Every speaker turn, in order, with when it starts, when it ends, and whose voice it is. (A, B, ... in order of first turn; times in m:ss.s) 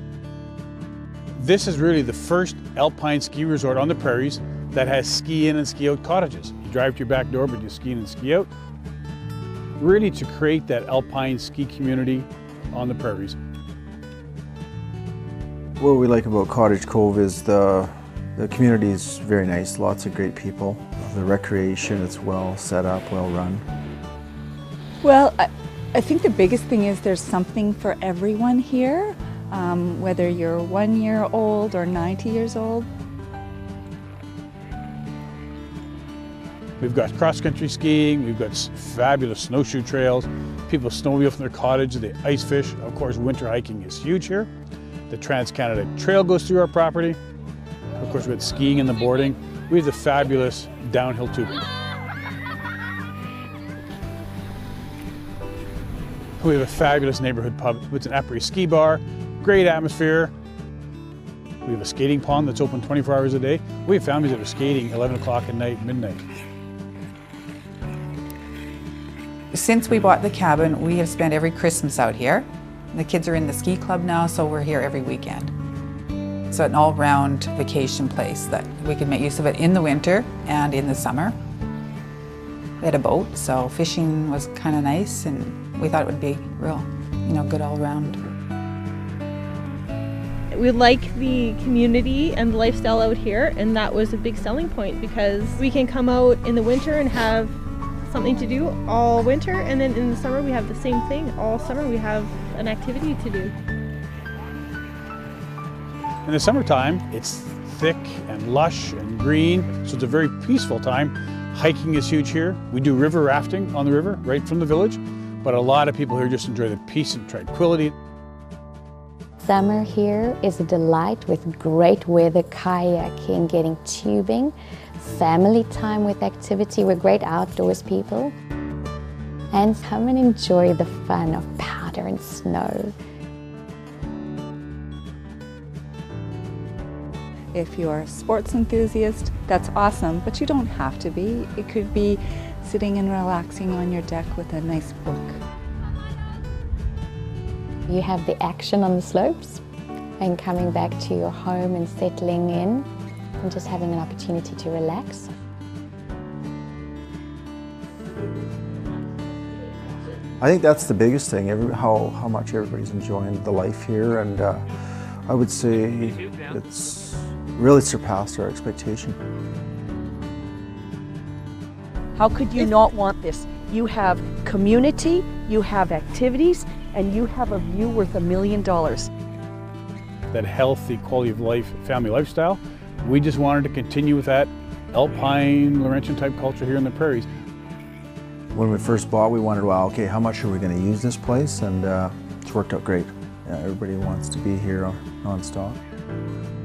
0:01.4-0:08.5 A
0:09.8-0:13.4 A
0:15.8-0:23.6 B
0:25.0-0:32.9 C
0:36.8-0:44.5 A
0:45.1-0:47.2 A
0:48.0-0:51.6 A
0:56.4-1:00.3 A
1:01.6-1:06.2 A
1:09.5-1:15.5 D
1:16.5-1:21.4 D
1:22.8-1:28.2 D
1:30.5-1:37.5 E
1:38.1-1:43.5 E
1:46.2-1:57.9 A
1:59.4-2:08.3 F
2:09.5-2:12.9 F
2:17.5-2:25.4 C
2:27.9-2:29.6 F
2:30.2-2:32.8 F
2:33.4-2:35.3 F
2:40.4-2:44.7 B
2:45.3-2:49.2 B
2:52.2-2:59.1 G
3:00.3-3:07.3 A
3:08.5-3:15.8 B